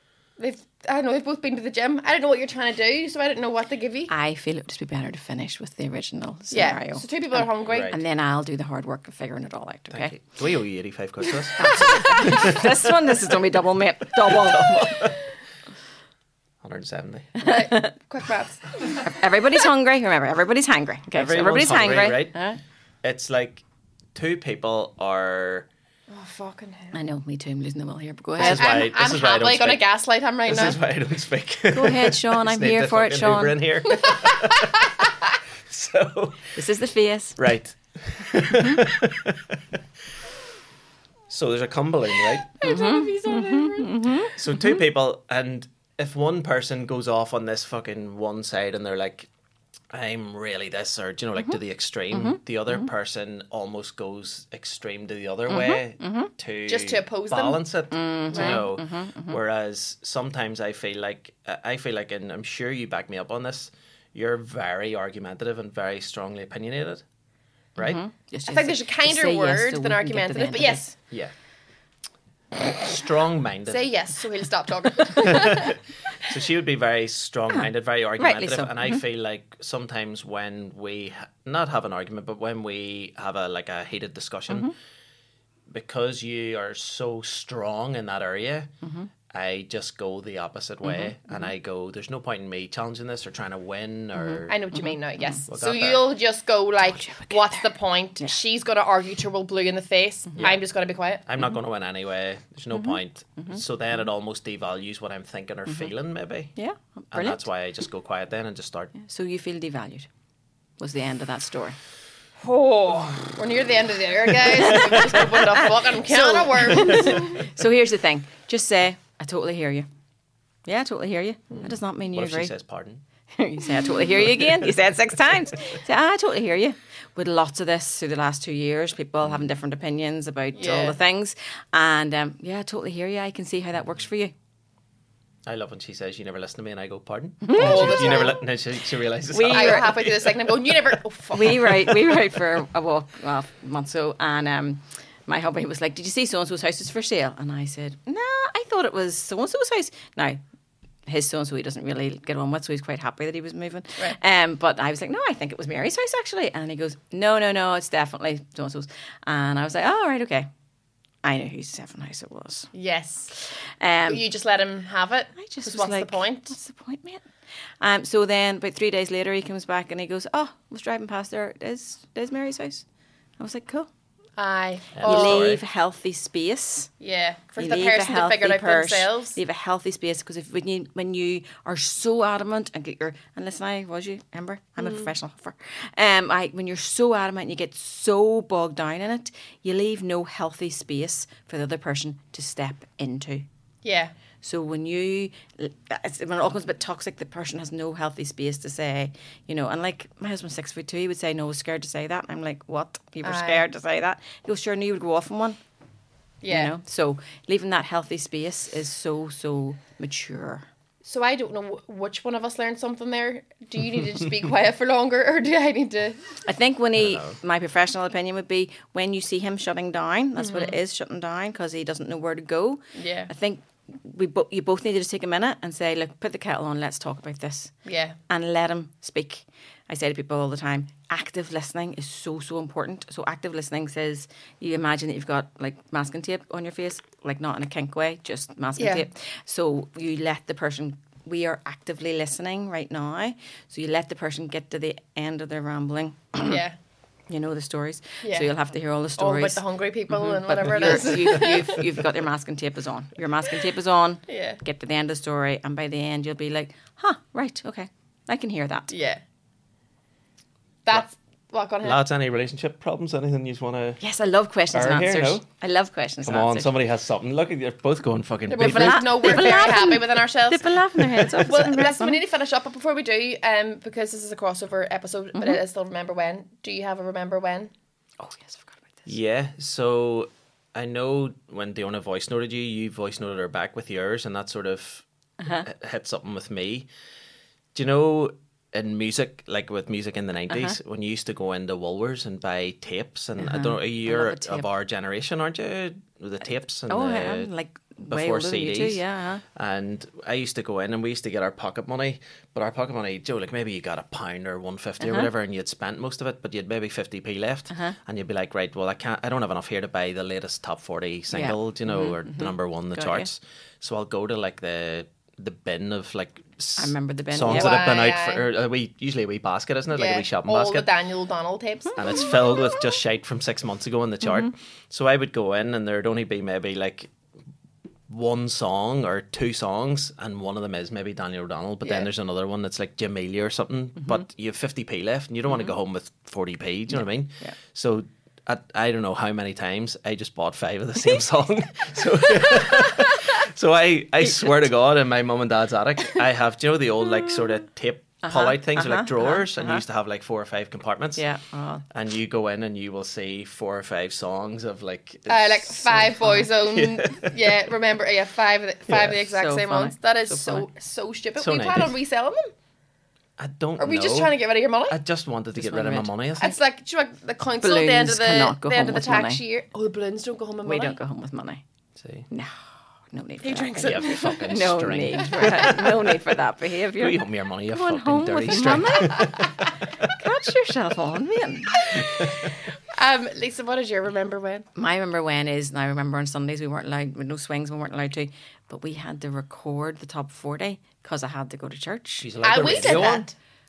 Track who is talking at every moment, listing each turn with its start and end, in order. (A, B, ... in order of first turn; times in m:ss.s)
0:00.4-0:04.1 A
0:04.1-0:10.1 B
0:06.5-0:08.0 A
0:07.6-0:08.0 C
0:09.9-0:12.7 C
0:11.6-0:12.6 A
0:11.6-0:15.1 B
0:14.2-0:15.2 C
0:16.6-0:17.4 C
0:17.4-0:17.9 B
0:17.4-0:19.0 A
0:19.0-0:22.6 B
0:21.1-0:22.4 C
0:23.0-0:23.6 C
0:24.1-0:25.7 C
0:26.1-0:27.0 A
0:26.9-0:28.6 B
0:28.4-0:30.8 A
0:28.4-0:29.8 C
0:30.5-0:35.1 C
0:31.7-0:33.6 B
0:34.0-0:35.0 A
0:35.7-0:36.6 C
0:36.6-0:37.4 B
0:37.4-0:39.6 C
0:38.5-0:38.8 B
0:41.3-0:42.5 C
0:42.6-0:44.3 A
0:42.6-0:44.7 B
0:44.3-0:49.3 C
0:49.9-1:07.0 C
0:52.1-0:52.9 B
0:55.5-0:56.3 B
0:56.7-0:57.6 A
0:57.9-0:59.4 B
0:58.3-0:58.6 A
1:07.8-1:08.0 C
1:07.8-1:11.0 B
1:08.5-1:10.8 A
1:12.7-1:13.9 C
1:13.7-1:15.8 A
1:15.2-1:24.7 C
1:18.2-1:19.0 B
1:25.7-1:28.7 C
1:28.8-1:29.1 B
1:29.3-1:34.6 C
1:30.8-1:31.5 B
1:34.5-1:41.2 A
1:35.5-1:36.1 C
1:36.9-1:37.7 B
1:41.2-1:46.6 C
1:45.7-1:45.9 B
1:46.6-1:47.4 B
1:47.1-1:48.9 C
1:49.0-1:50.1 B
1:50.8-1:51.8 B
1:53.4-1:57.5 A
1:54.4-1:59.8 B
2:00.6-2:02.5 B
2:01.6-2:03.0 C
2:03.3-2:14.3 B
2:04.2-2:04.5 C
2:10.6-2:11.0 A
2:15.4-2:20.2 C
2:17.4-2:18.4 B
2:17.5-2:18.4 A
2:19.3-2:20.1 B
2:19.5-2:22.0 A
2:21.3-2:30.4 B
2:31.1-2:40.5 B
2:41.2-2:42.7 B
2:42.7-2:43.3 A
2:43.4-2:44.2 B
2:44.1-2:46.6 A
2:45.4-2:47.2 B
2:47.8-2:52.8 B
2:53.4-2:53.9 B
2:54.4-2:55.5 A
2:54.9-2:55.6 C
2:55.0-2:56.9 B
2:57.0-2:59.4 A
2:57.6-3:13.4 B
3:04.8-3:05.1 A
3:13.8-3:14.1 A
3:14.4-3:25.6 B
3:23.2-3:23.6 A
3:26.4-3:26.7 A
3:26.5-3:30.6 B
3:31.0-3:36.3 A
3:36.4-3:47.7 B
3:37.0-3:37.4 C
3:40.4-3:40.8 A
3:42.9-3:43.3 A
3:47.8-3:48.2 A
3:48.3-4:06.6 B
3:58.8-3:59.0 A
4:06.4-4:06.8 A
4:07.3-4:09.6 B
4:08.2-4:08.5 A
4:09.2-4:11.9 A
4:10.3-4:18.9 B
4:14.3-4:14.6 A
4:18.9-4:19.2 A
4:20.8-4:22.0 A
4:21.8-4:24.0 C
4:24.0-4:26.7 B
4:24.7-4:25.4 C
4:26.2-4:29.4 C
4:28.5-4:37.7 A
4:28.6-4:32.2 B
4:35.3-4:35.6 B
4:38.2-4:39.1 B
4:39.0-4:45.0 C
4:45.4-4:45.6 B
4:45.6-4:46.9 C
4:47.7-4:57.5 C
4:50.5-4:50.8 B
4:53.4-4:54.7 B
4:56.9-4:59.4 B
4:58.0-4:59.0 C
4:59.5-5:20.9 C
5:05.0-5:05.3 B
5:11.3-5:13.3 B
5:16.8-5:17.8 B
5:17.5-5:18.4 A
5:19.9-5:22.2 A
5:22.0-5:27.1 C
5:28.1-5:51.2 C
5:48.2-5:49.8 B
5:51.2-5:51.8 B
5:51.9-5:57.5 C
5:55.3-6:02.5 A
5:56.1-5:56.5 B
5:58.9-5:59.2 C
5:59.1-6:00.7 B
6:01.4-6:01.9 C
6:03.4-6:06.6 C
6:03.8-6:05.0 A
6:05.6-6:06.1 B
6:06.4-6:11.0 A
6:07.6-6:09.4 B
6:10.6-6:11.6 B
6:12.0-6:12.2 C
6:13.1-6:19.4 B
6:13.4-6:14.5 A
6:13.8-6:15.9 C
6:15.2-6:15.9 A
6:17.0-6:20.1 C
6:20.2-6:21.8 B
6:21.9-6:24.6 A
6:22.0-6:22.5 C
6:24.8-6:32.3 B
6:32.2-6:33.3 C
6:32.4-6:33.3 A